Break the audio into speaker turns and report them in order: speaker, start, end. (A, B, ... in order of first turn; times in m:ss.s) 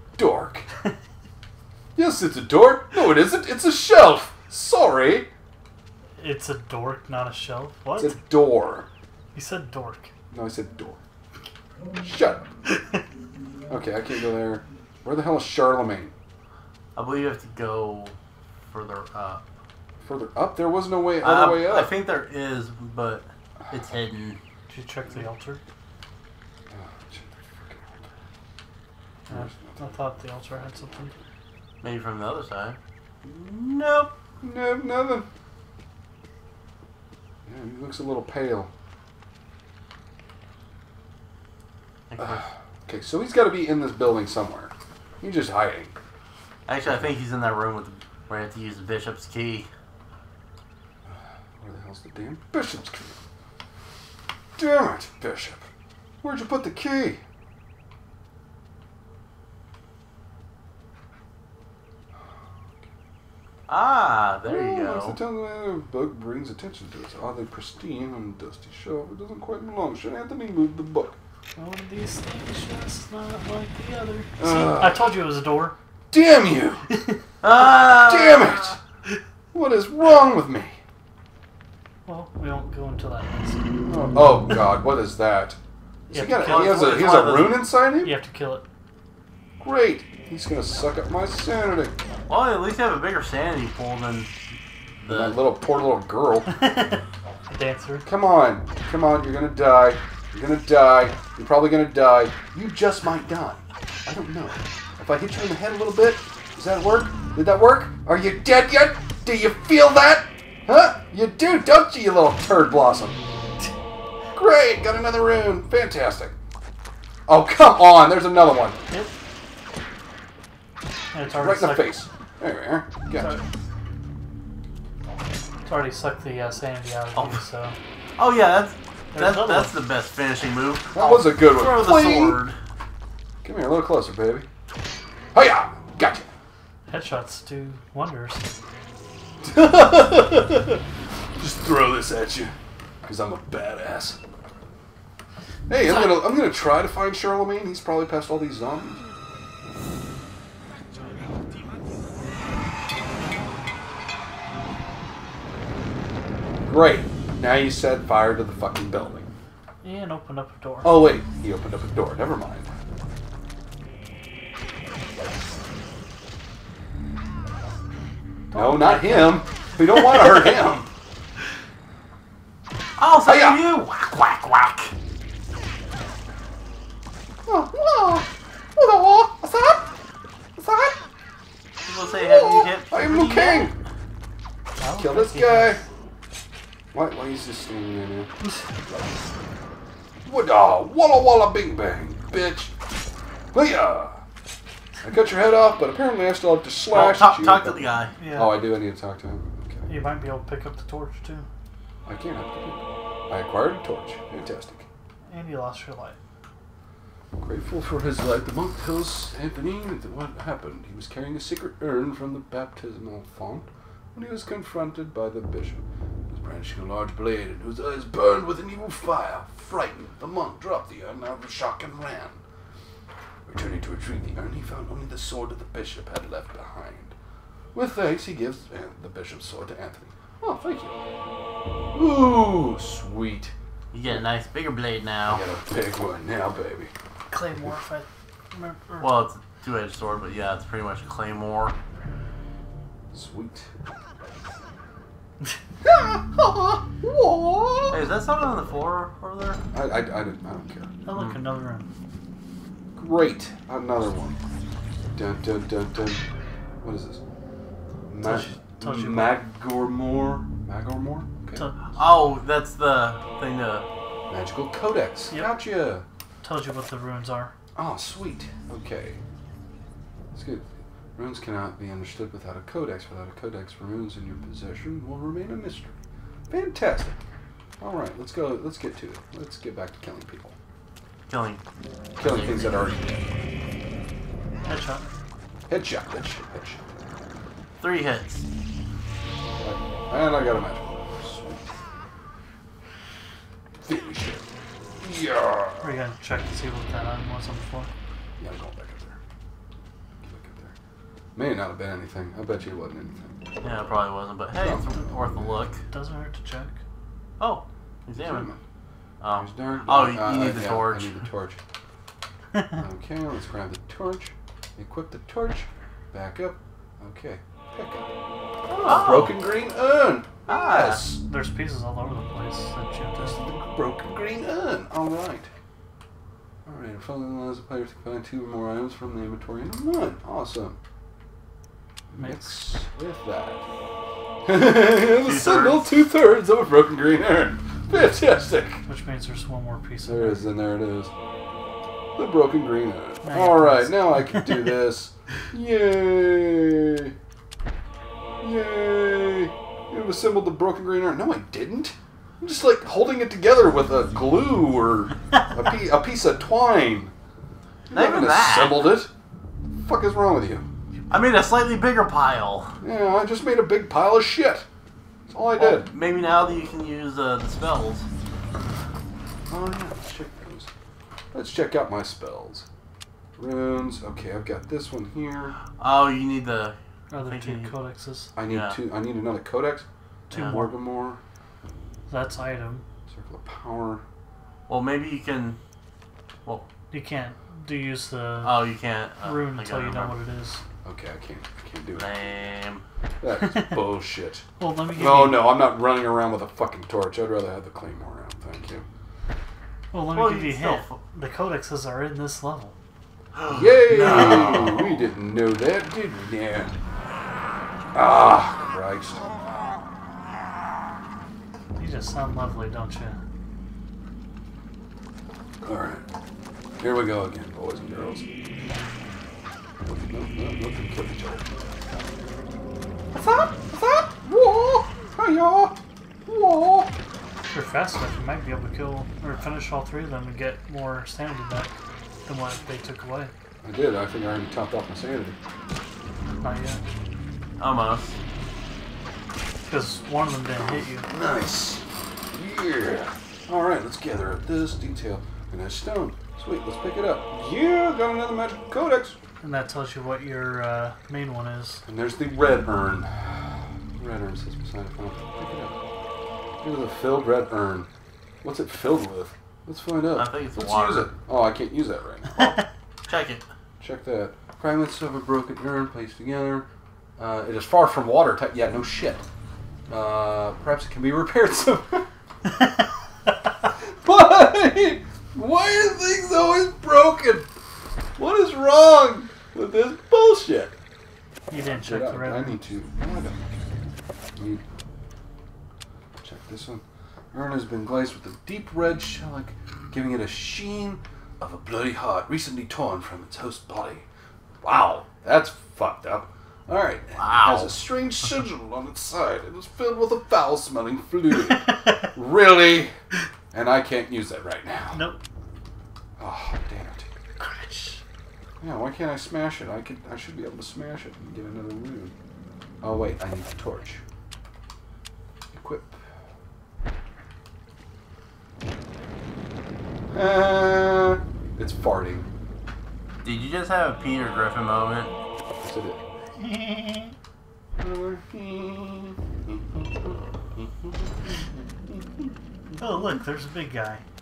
0:00.2-0:00.7 A
0:02.0-0:05.3 A
0:06.2-0:08.2 B
0:08.0-0:08.9 A
0:09.3-0:10.1 B
0:10.3-0:11.0 A
0:12.0-0:12.5 A
0:12.7-0:13.0 B
0:13.7-0:16.1 A
0:16.9-0:18.1 C
0:18.7-0:19.4 C
0:20.0-0:21.9 A
0:21.2-0:24.4 C
0:24.7-0:25.6 B
0:26.7-0:28.1 A
0:29.3-0:29.9 A
0:29.3-0:31.2 B
0:31.8-0:34.1 C
0:34.4-0:35.3 A
0:37.4-0:38.7 A
0:42.1-0:42.4 C
0:42.2-0:46.0 A
0:46.7-0:49.7 C
0:46.8-0:47.1 A
0:51.0-0:53.2 A
0:54.6-0:55.7 A
0:56.2-0:57.2 A
1:03.7-1:05.2 C
1:04.4-1:11.2 A
1:11.6-1:15.8 B
1:14.4-1:15.2 A
1:16.1-1:16.9 A
1:17.4-1:18.8 C
1:17.5-1:18.8 A
1:19.5-1:20.8 A
1:22.0-1:23.6 B
1:23.9-1:25.6 A
1:26.1-1:28.2 A
1:26.1-1:27.2 B
1:26.4-1:27.7 C
1:28.0-1:28.6 B
1:29.6-1:31.9 A
1:32.3-1:34.3 C
1:35.0-1:35.4 C
1:35.1-1:36.6 A
1:36.6-1:37.0 B
1:37.5-1:38.1 B
1:38.0-1:53.2 A
1:54.3-1:56.3 A
1:57.3-1:58.8 A
2:01.1-2:01.9 B
2:01.2-2:03.4 A
2:03.1-2:03.4 B
2:05.6-2:07.8 B
2:07.1-2:07.4 C
2:08.2-2:12.6 C
2:09.1-2:09.7 B
2:10.9-2:12.4 A
2:13.4-2:14.5 A
2:15.3-2:16.3 A
2:16.9-2:18.5 B
2:19.4-2:20.8 A
2:21.4-2:24.2 A
2:25.7-2:29.0 A
2:36.6-2:39.3 A
2:39.8-2:41.0 B
2:40.8-2:42.7 A
2:48.5-2:49.4 B
2:48.5-2:50.9 A
2:53.0-2:54.9 C
2:53.2-2:53.6 A
2:57.4-2:59.9 A
3:00.6-3:01.0 A
3:01.8-3:03.7 C
3:02.1-3:03.8 A
3:04.8-3:05.8 B
3:04.9-3:05.8 A
3:06.9-3:08.3 A
3:10.2-3:12.7 A
3:13.5-3:14.2 A
3:15.0-3:19.9 A
3:16.9-3:18.1 C
3:18.2-3:18.6 B
3:19.9-3:21.5 B
3:22.0-3:24.9 A
3:25.3-3:26.2 B
3:27.4-3:42.4 A
3:43.4-3:47.1 A
3:47.7-3:51.0 A
3:51.9-3:53.5 A
3:53.9-3:55.4 C
3:55.2-3:56.9 A
3:57.3-3:59.2 B
3:59.0-4:01.8 C
4:03.1-4:03.7 A
4:05.8-4:08.1 A
4:07.9-4:09.6 C
4:09.7-4:10.9 A
4:11.0-4:11.9 B
4:11.1-4:11.4 C
4:13.0-4:14.4 A
4:15.1-4:16.2 A
4:16.8-4:17.2 A
4:18.1-4:21.6 A
4:18.2-4:19.4 B
4:21.5-4:21.8 B
4:22.0-4:23.9 C
4:24.3-4:26.0 A
4:26.4-4:27.5 B
4:27.7-4:29.2 A
4:30.3-4:35.9 A
4:36.5-4:37.2 A
4:37.8-4:40.6 A
4:41.3-4:41.6 C
4:42.2-4:43.3 A
4:42.2-4:43.0 C
4:44.6-4:45.1 B
4:45.7-4:47.0 A
4:47.8-4:48.4 C
4:49.6-4:51.8 A
4:53.8-4:54.5 A
4:55.0-4:56.0 A
4:55.8-4:57.9 B
4:58.4-4:59.2 A
5:00.2-5:00.8 A
5:01.4-5:03.4 A
5:03.6-5:05.8 C
5:04.6-5:05.6 A
5:05.9-5:06.8 B
5:07.4-5:08.5 C
5:08.1-5:08.6 A
5:09.2-5:11.2 C
5:09.3-5:11.6 A
5:12.7-5:18.1 A
5:18.7-5:19.4 C
5:18.8-5:21.2 A
5:20.5-5:21.0 C
5:21.3-5:23.4 B
5:23.1-5:25.5 A
5:26.6-5:30.8 A
5:32.1-5:33.6 A
5:32.2-5:32.7 B
5:34.4-5:38.8 A
5:35.0-5:35.9 C
5:38.8-5:40.5 B
5:40.0-5:41.1 A
5:42.1-5:47.1 A
5:43.2-5:44.7 B
5:48.4-5:57.1 A
5:57.9-5:59.1 A
5:57.9-5:59.0 C
5:59.7-6:00.6 A
6:01.1-6:02.7 C
6:02.8-6:04.7 A
6:05.3-6:05.9 A
6:05.6-6:08.0 C
6:09.5-6:10.7 A
6:11.3-6:12.7 A
6:13.4-6:15.6 A
6:15.8-6:17.8 C
6:17.1-6:18.3 B
6:18.4-6:21.2 A
6:18.5-6:18.8 C
6:20.3-6:20.6 C
6:20.3-6:20.7 B
6:22.1-6:22.8 B
6:23.1-6:24.0 A
6:24.7-6:25.6 C
6:26.9-6:28.6 B
6:28.4-6:30.2 C
6:29.2-6:30.6 B
6:30.8-6:32.1 A
6:31.9-6:32.8 C
6:33.2-6:38.8 A
6:34.6-6:35.6 B
6:39.9-6:42.7 B
6:40.1-6:41.0 C
6:43.4-6:44.8 C
6:43.5-6:46.7 A
6:43.9-6:44.7 B
6:47.9-6:49.2 A
6:51.8-6:53.2 B
6:55.6-6:56.0 A
6:56.8-6:58.2 A
6:59.8-7:02.1 A
7:03.1-7:06.9 A
7:07.5-7:11.7 B
7:12.2-7:13.3 B
7:13.6-7:15.4 A
7:16.4-7:16.8 B
7:17.6-7:18.2 C
7:19.7-7:21.1 B
7:20.6-7:29.2 A
7:29.4-7:31.8 B
7:31.8-7:35.8 A
7:36.6-7:37.9 A
7:38.4-7:42.6 A
7:40.1-7:41.1 C
7:43.1-7:43.4 C
7:43.8-7:46.7 A
7:47.2-7:49.2 A
7:49.9-7:52.1 A
7:53.9-7:57.5 A
7:58.2-8:00.7 A
8:01.5-8:02.6 B
8:01.5-8:04.6 A
8:06.2-8:14.0 A
8:14.6-8:23.0 A
8:17.2-8:17.8 C
8:23.5-8:25.0 A
8:24.9-8:25.2 B
8:26.2-8:27.0 A
8:27.4-8:28.0 B
8:28.6-8:32.1 A
8:32.8-8:34.0 A
8:35.5-8:36.0 A
8:40.1-8:42.3 A
8:43.2-8:45.1 C
8:45.6-8:46.0 A
8:46.4-8:47.1 B
8:47.8-8:53.0 A
8:52.8-8:54.0 B